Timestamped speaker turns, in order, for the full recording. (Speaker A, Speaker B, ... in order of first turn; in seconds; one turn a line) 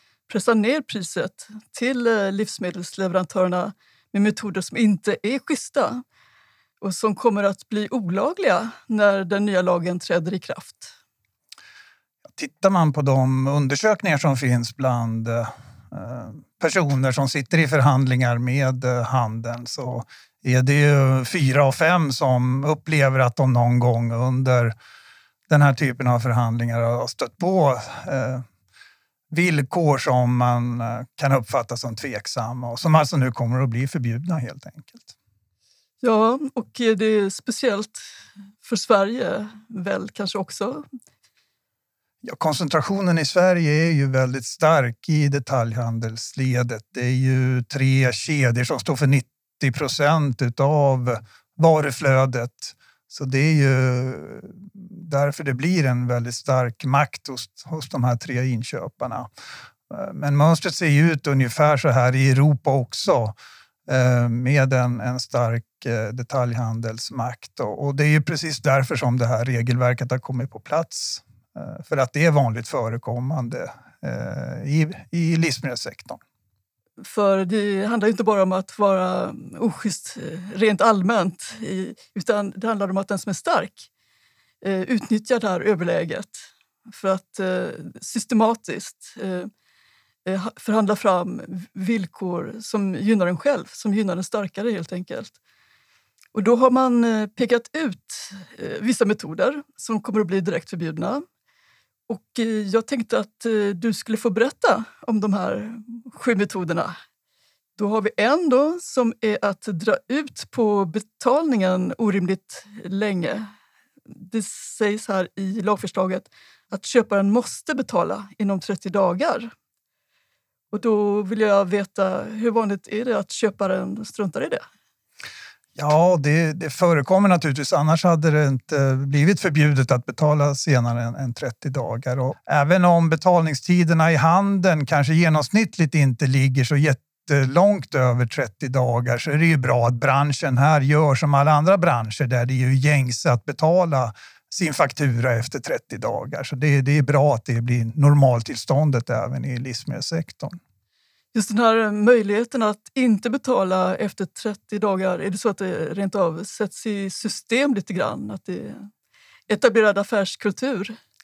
Speaker A: 0.3-6.0
Speaker A: 6.8-10.9
Speaker B: 12.3-24.8
Speaker B: 25.5-28.4
Speaker B: 29.3-35.1
Speaker A: 36.0-38.0
Speaker A: 38.6-40.9
Speaker B: 42.2-59.3
Speaker B: 59.9-63.4
Speaker B: 63.9-76.2
Speaker A: 77.0-83.9
Speaker A: 84.6-89.5
Speaker A: 90.2-95.3
Speaker A: 96.3-101.2
Speaker A: 102.1-107.0
Speaker A: 107.8-113.5
Speaker A: 114.1-119.5
Speaker A: 120.7-124.6
Speaker B: 125.8-150.6
Speaker A: 151.3-158.9
Speaker A: 159.5-161.0